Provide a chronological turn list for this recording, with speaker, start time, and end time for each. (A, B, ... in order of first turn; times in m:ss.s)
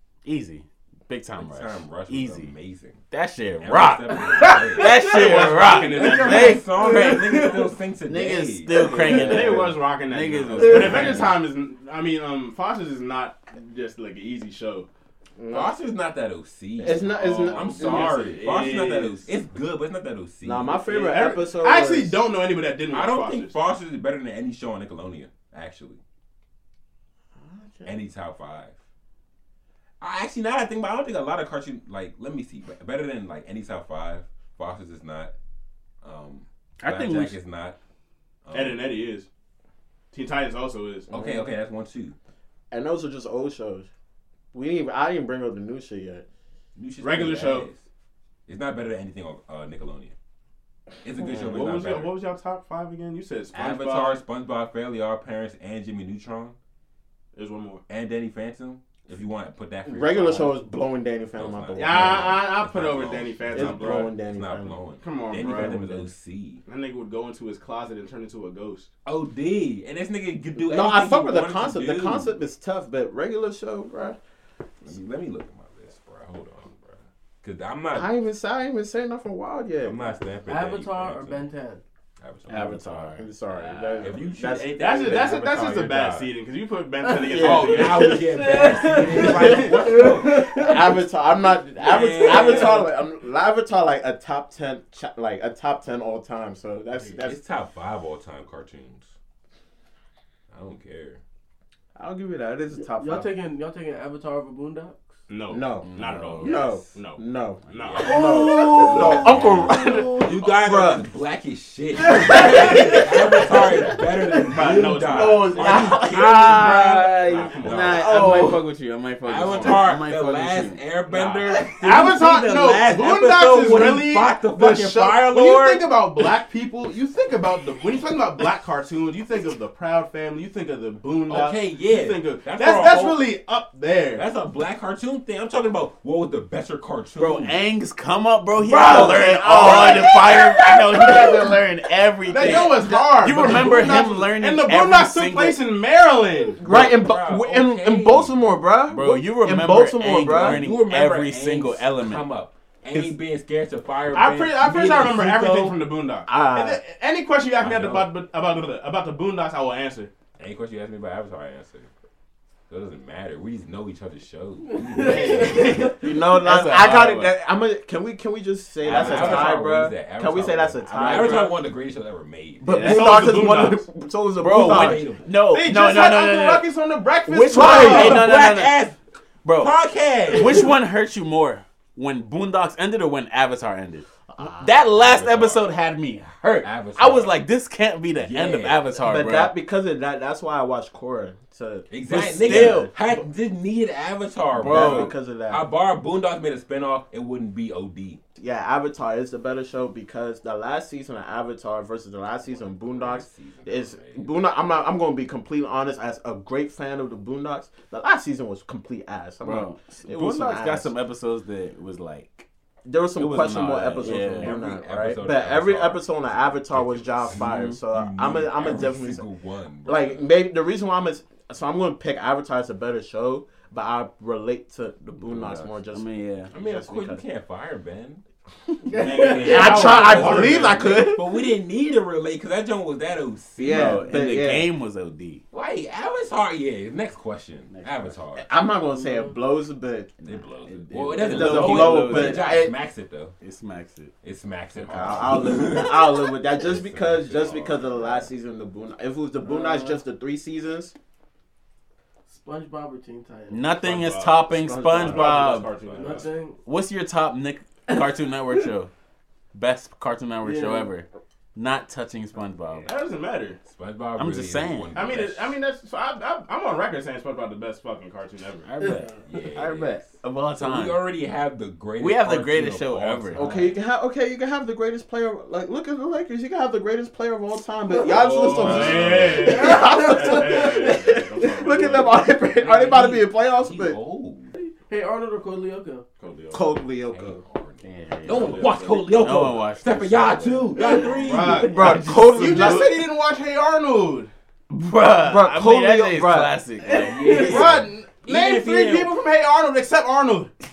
0:00.2-0:02.5 A
0:01.4-0:03.0 B
0:03.1-0:07.4 A
0:03.6-0:09.5 B
0:04.9-0:06.6 C
0:06.8-0:07.4 D
0:08.0-0:11.4 A
0:08.8-0:09.6 E
0:08.9-0:14.9 C
0:10.6-0:11.2 B
0:15.4-0:15.7 E
0:15.5-0:20.8 B
0:16.8-0:18.3 E
0:17.0-0:19.3 C
0:20.4-0:22.2 E
0:20.8-0:23.6 C
0:22.9-0:26.0 B
0:27.4-0:27.9 E
0:27.8-0:28.8 B
0:30.0-0:35.3 B
0:36.0-0:37.8 B
0:36.8-0:37.4 A
0:38.4-0:38.9 B
0:38.5-0:39.3 C
0:40.1-0:41.1 C
0:41.1-0:42.2 B
0:41.1-0:41.5 E
0:42.7-0:43.9 E
0:44.5-0:46.2 E
0:46.8-0:47.8 B
0:47.0-0:47.7 C
0:48.5-0:50.1 B
0:51.0-0:52.1 B
0:51.3-0:54.2 C
0:53.5-0:56.6 B
0:57.3-0:57.8 C
0:57.9-1:00.6 B
0:59.8-1:02.5 E
1:01.4-1:06.6 B
1:01.8-1:04.1 C
1:03.5-1:06.1 E
1:05.0-1:05.8 C
1:06.6-1:08.9 C
1:09.0-1:12.3 B
1:10.6-1:14.2 E
1:14.8-1:18.1 B
1:17.9-1:20.0 E
1:19.8-1:21.5 B
1:20.5-1:21.8 D
1:22.2-1:23.2 B
1:22.5-1:24.1 A
1:22.5-1:25.4 E
1:24.0-1:26.3 B
1:24.7-1:28.2 C
1:27.2-1:37.4 E
1:27.4-1:30.7 B
1:28.4-1:30.9 D
1:31.8-1:32.9 B
1:37.2-1:39.1 B
1:40.5-1:41.2 B
1:41.9-1:43.3 E
1:42.7-1:45.2 D
1:45.3-1:49.1 C
1:45.5-1:51.0 E
1:46.0-1:46.4 A
1:46.0-1:46.9 B
1:47.7-1:58.6 B
1:52.1-1:53.0 E
1:54.5-1:56.2 C
1:54.6-2:04.0 A
1:55.4-1:56.9 E
1:56.9-1:58.4 C
1:58.1-1:58.6 E
1:59.2-2:02.2 B
2:01.7-2:14.2 C
2:02.8-2:05.9 B
2:11.3-2:13.3 B
2:14.2-2:17.6 B
2:17.2-2:25.6 A
2:18.6-2:21.6 E
2:22.3-2:26.6 C
2:22.4-2:23.0 E
2:26.6-2:30.7 E
2:26.6-2:28.4 B
2:28.9-2:32.2 A
2:30.2-2:35.8 B
2:34.1-2:40.1 C
2:36.3-2:36.8 E
2:37.6-2:38.1 B
2:40.4-2:41.9 B
2:42.7-2:45.9 B
2:45.0-2:45.9 C
2:45.8-2:51.5 E
2:46.0-2:47.3 A
2:48.8-2:49.6 A
2:48.8-2:53.4 B
2:50.8-2:51.6 A
2:52.6-2:55.2 E
2:52.7-2:53.2 A
2:52.7-2:53.8 C
2:54.4-2:56.7 A
2:54.4-2:55.3 B
2:55.5-2:58.2 C
2:57.2-2:58.8 A
2:57.5-2:58.4 E
2:57.6-2:59.0 B
2:59.4-2:59.7 A
2:59.5-3:00.7 B
3:00.3-3:04.0 A
3:04.3-3:04.8 E
3:04.6-3:09.5 A
3:04.8-3:05.7 B
3:06.6-3:07.4 B
3:08.2-3:08.9 B
3:09.0-3:13.2 E
3:11.9-3:18.2 B
3:12.1-3:12.9 A
3:14.5-3:15.2 A
3:14.6-3:15.6 E
3:18.4-3:30.9 E
3:22.5-3:24.3 B
3:29.4-3:32.5 A
3:32.8-3:39.2 E
3:33.2-3:34.6 A
3:33.9-3:40.3 B
3:37.4-3:37.8 A
3:39.8-3:47.2 E
3:45.2-3:45.7 B
3:45.9-3:46.5 A
3:46.5-3:48.2 B
3:48.9-3:51.0 C
3:48.9-3:54.0 B
3:49.2-3:51.4 E
3:53.6-3:54.7 E
3:53.6-3:55.4 A
3:55.5-3:58.5 B
3:57.7-3:58.2 A
3:58.4-4:00.1 E
3:58.9-3:59.4 D
4:00.2-4:02.7 A
4:00.2-4:03.4 B
4:01.2-4:02.7 E
4:03.4-4:04.1 A
4:04.2-4:08.3 B
4:04.8-4:10.9 E
4:09.4-4:10.0 D
4:12.3-4:13.7 D
4:13.5-4:15.8 A
4:13.8-4:16.3 C
4:14.5-4:15.6 E
4:15.0-4:16.3 B
4:15.9-4:16.6 D
4:16.6-4:18.9 A
4:19.5-4:22.9 A
4:20.4-4:20.9 D
4:22.8-4:23.6 C
4:23.6-4:25.5 B
4:24.2-4:25.0 A
4:24.9-4:28.7 C
4:28.6-4:31.1 A
4:29.2-4:33.8 B
4:32.0-4:33.5 A
4:33.3-4:44.0 E
4:38.0-4:39.6 B
4:38.4-4:41.9 C
4:39.5-4:40.6 D
4:41.5-4:42.1 A
4:42.5-4:44.5 B
4:44.9-4:46.0 D
4:46.2-4:46.8 C
4:46.5-4:47.4 E
4:47.0-4:51.7 B
4:47.8-4:53.0 A
4:48.3-4:49.1 C
4:50.8-4:54.3 C
4:51.4-4:52.9 E
4:54.7-4:57.7 A
4:55.2-4:56.6 E
4:56.9-4:59.2 B
4:57.0-4:57.4 D
4:57.2-5:00.5 C